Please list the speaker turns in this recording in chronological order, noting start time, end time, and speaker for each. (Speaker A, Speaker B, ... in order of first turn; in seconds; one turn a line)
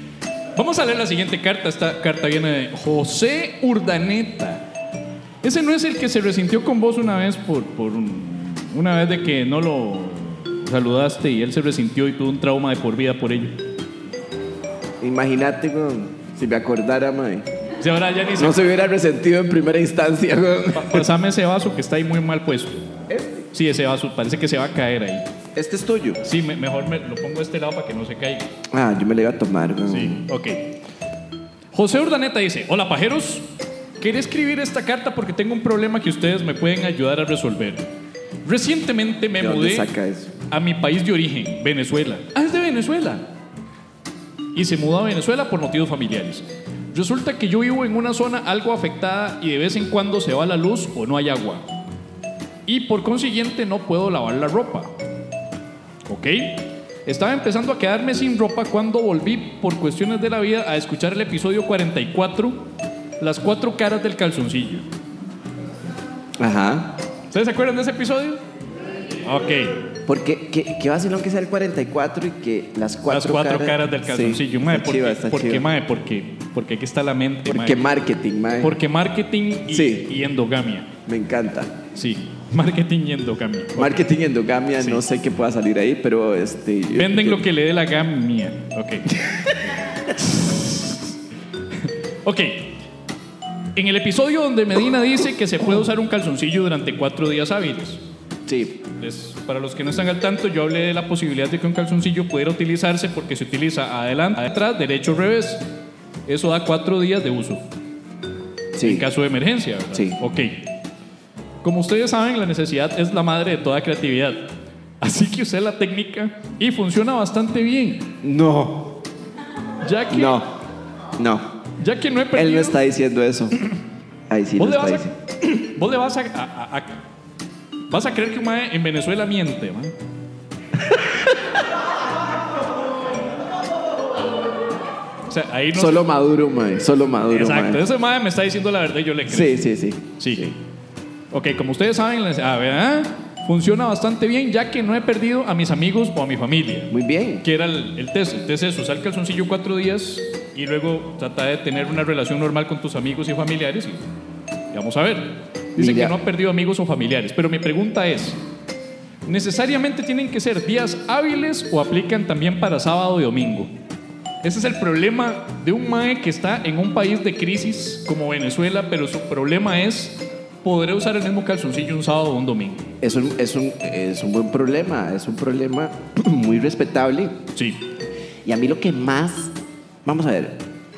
Speaker A: 0.5-4.6
Speaker A: 5.4-13.5
Speaker B: 15.0-17.4
Speaker A: 17.8-18.7
Speaker B: 18.4-21.1
Speaker A: 20.7-22.8
Speaker B: 23.1-23.5
Speaker A: 23.5-25.2
Speaker B: 25.5-26.2
Speaker A: 26.2-28.5
Speaker B: 28.7-30.2
Speaker A: 29.9-30.6
Speaker A: 31.7-33.5
Speaker A: 34.0-37.9
Speaker A: 38.4-39.9
Speaker B: 39.4-40.3
Speaker A: 40.5-43.3
Speaker A: 44.5-51.6
Speaker A: 52.6-54.9
Speaker A: 56.0-62.6
Speaker A: 63.2-64.8
Speaker B: 66.4-67.0
Speaker A: 67.3-68.4
Speaker A: 69.2-69.7
Speaker B: 70.1-75.7
Speaker A: 73.1-77.8
Speaker B: 77.5-78.7
Speaker A: 78.6-80.9
Speaker B: 79.7-80.1
Speaker B: 81.0-81.7
Speaker A: 81.9-84.1
Speaker B: 83.8-87.5
Speaker A: 86.9-89.1
Speaker A: 90.2-91.0
Speaker A: 91.8-92.8
Speaker A: 93.8-98.0
Speaker B: 98.5-98.8
Speaker A: 99.0-105.6
Speaker A: 106.3-107.6
Speaker B: 108.7-109.1
Speaker A: 108.8-110.7
Speaker B: 109.9-110.2
Speaker A: 111.6-118.1
Speaker B: 118.2-118.9
Speaker A: 119.8-120.4
Speaker B: 120.1-120.5
Speaker B: 121.2-121.5
Speaker A: 121.8-122.8
Speaker B: 122.3-123.5
Speaker B: 124.3-125.1
Speaker A: 124.6-127.0
Speaker A: 127.9-129.9
Speaker A: 135.3-136.0
Speaker B: 135.7-137.8
Speaker A: 137.3-139.6
Speaker B: 139.3-140.5
Speaker A: 140.2-140.5
Speaker A: 141.3-154.1
Speaker B: 146.9-147.4
Speaker A: 154.7-158.4
Speaker B: 155.8-156.2
Speaker A: 159.2-163.7
Speaker A: 164.4-172.9
Speaker B: 173.0-177.3
Speaker A: 177.5-177.8
Speaker B: 178.4-179.5
Speaker B: 180.0-180.6